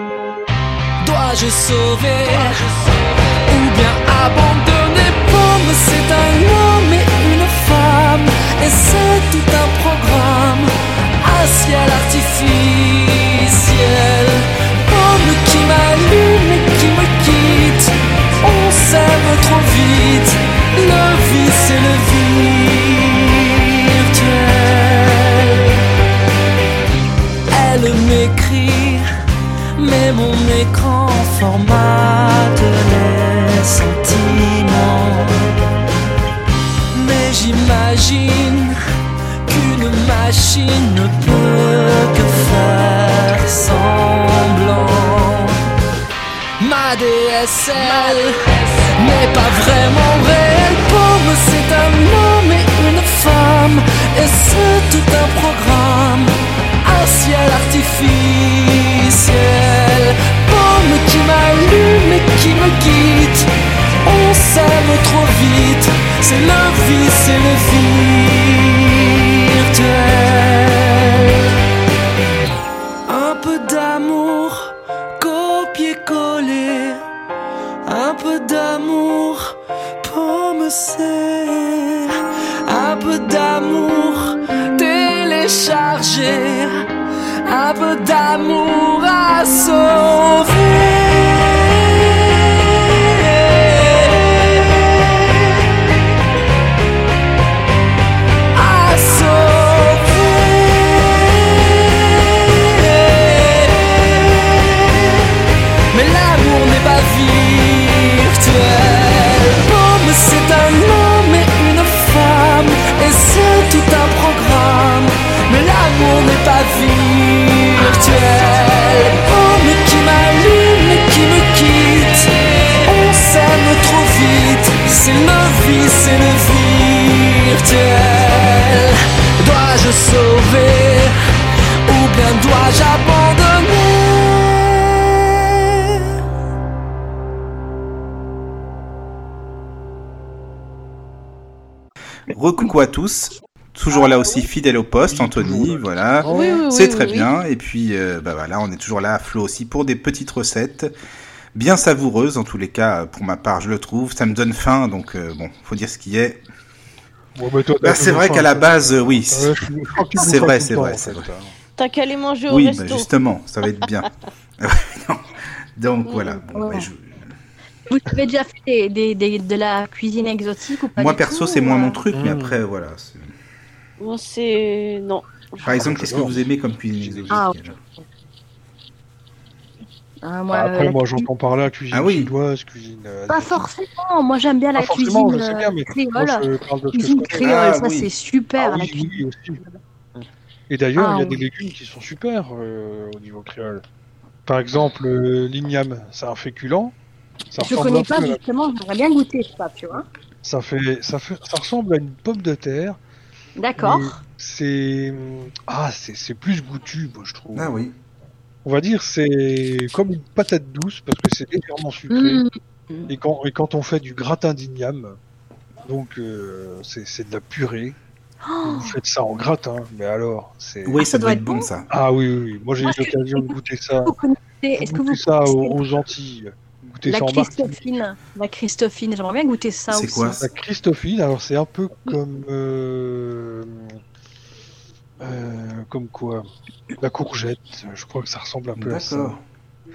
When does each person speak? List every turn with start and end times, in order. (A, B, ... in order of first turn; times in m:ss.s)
0:01.0-0:25.8 A
0:27.5-0:29.0 A
0:29.8-0:35.5 A
0:36.9-0:38.8 A
0:39.5-0:45.6 A
0:46.6-1:03.5 A
1:04.0-1:11.5 A
1:13.1-1:17.0 A
1:17.9-1:22.1 A
1:22.7-1:26.8 A
1:27.4-1:35.8 A
1:38.5-2:11.2 A
2:11.9-2:16.1 A
2:22.3-2:30.9 B
2:25.1-2:26.6 C
2:26.3-2:27.3 D
2:31.5-2:36.4 B
2:37.4-2:41.6 C
2:37.8-2:39.6 B
2:40.1-2:41.3 B
2:41.8-2:43.1 D
2:42.5-2:47.3 B
2:46.1-2:46.4 D
2:46.5-2:46.9 E
2:47.9-2:52.0 E
2:51.0-2:53.3 B
2:52.1-2:52.6 C
2:54.0-2:55.7 D
2:55.6-2:57.8 B
2:55.6-2:57.4 C
2:57.3-2:57.6 E
3:00.2-3:01.3 E
3:00.5-3:03.7 C
3:01.9-3:02.3 B
3:03.3-3:09.8 E
3:04.8-3:07.5 C
3:07.4-3:08.1 B
3:08.6-3:09.6 C
3:10.2-3:13.8 C
3:11.0-3:11.4 E
3:14.5-3:17.0 C
3:17.5-3:18.4 C
3:17.6-3:20.0 E
3:20.4-3:23.0 C
3:23.6-3:24.2 E
3:23.8-3:27.7 C
3:27.5-3:28.0 B
3:28.6-3:32.4 C
3:32.1-3:33.1 E
3:33.1-3:35.2 C
3:35.9-3:38.0 C
3:38.5-3:39.0 E
3:38.6-3:41.1 C
3:40.9-3:41.9 B
3:41.0-3:41.7 E
3:41.9-3:44.2 C
3:42.8-3:45.8 E
3:44.8-3:47.8 C
3:47.1-3:50.4 E
3:49.9-3:50.4 B
3:50.4-3:54.0 C
3:55.2-3:56.5 C
3:57.0-3:59.4 C
3:58.8-3:59.4 B